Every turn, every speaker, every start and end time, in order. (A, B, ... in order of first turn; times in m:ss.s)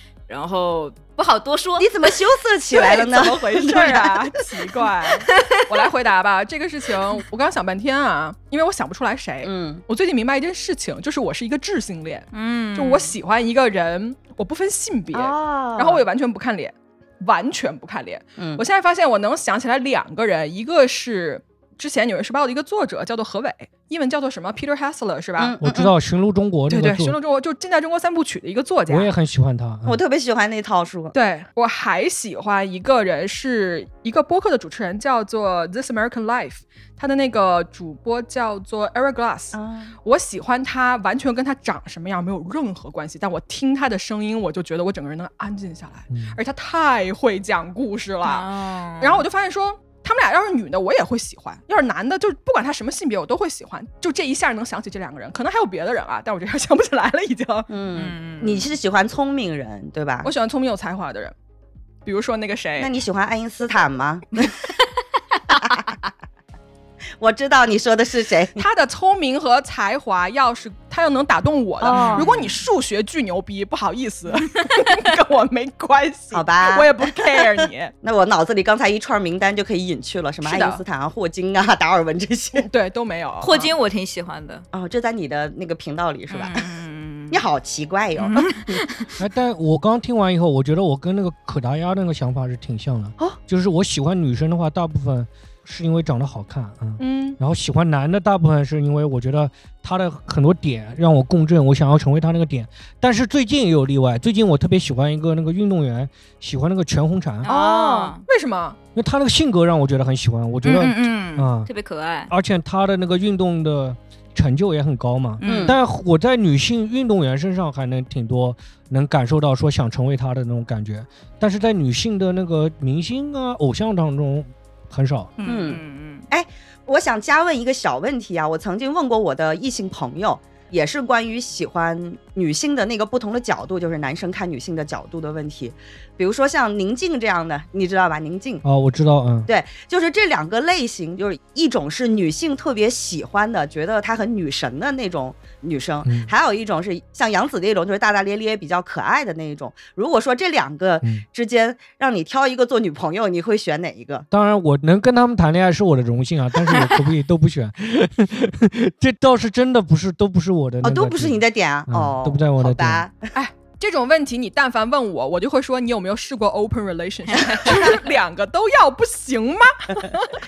0:00.3-0:02.2 A
0:01.8-0:04.2 B
0:02.7-0:25.6 C
0:05.4-0:05.6 A
0:09.4-0:09.8 B
0:12.3-0:13.2 A
0:15.1-0:16.0 B
0:18.4-0:18.6 B
0:25.4-0:25.9 B
0:25.6-0:27.2 D
0:26.7-0:29.1 C
0:28.9-0:30.0 D
0:29.9-0:31.2 B
0:31.1-0:48.5 C
0:39.5-0:39.9 B
0:46.1-0:46.4 D
0:48.2-0:49.2 A
0:49.0-0:57.7 C
0:57.7-1:00.3 B
0:57.9-0:58.7 A
1:00.2-1:01.3 C
1:02.0-1:02.9 C
1:02.8-1:04.7 B
1:05.5-1:06.1 B
1:07.2-1:08.6 B
1:08.6-1:17.9 C
1:11.8-1:12.5 B
1:11.9-1:12.3 A
1:16.3-1:22.7 B
1:20.4-1:20.8 C
1:22.6-1:23.7 C
1:23.4-1:24.6 A
1:24.7-1:26.7 B
1:26.3-1:27.4 A
1:27.3-1:28.8 B
1:28.2-1:29.1 A
1:29.2-1:47.5 D
1:37.0-1:37.4 C
1:47.4-1:48.2 A
1:47.4-1:48.8 C
1:49.0-1:51.7 D
1:50.7-1:51.4 C
1:50.7-1:52.3 A
1:52.3-2:05.3 D
1:55.4-1:55.8 A
1:55.4-1:55.8 B
2:05.4-2:06.3 A
2:05.5-2:18.6 B
2:18.6-2:19.5 D
2:19.5-2:34.3 B
2:26.0-2:26.3 D
2:34.3-2:43.0 D
2:40.8-2:43.3 B
2:43.3-2:50.4 C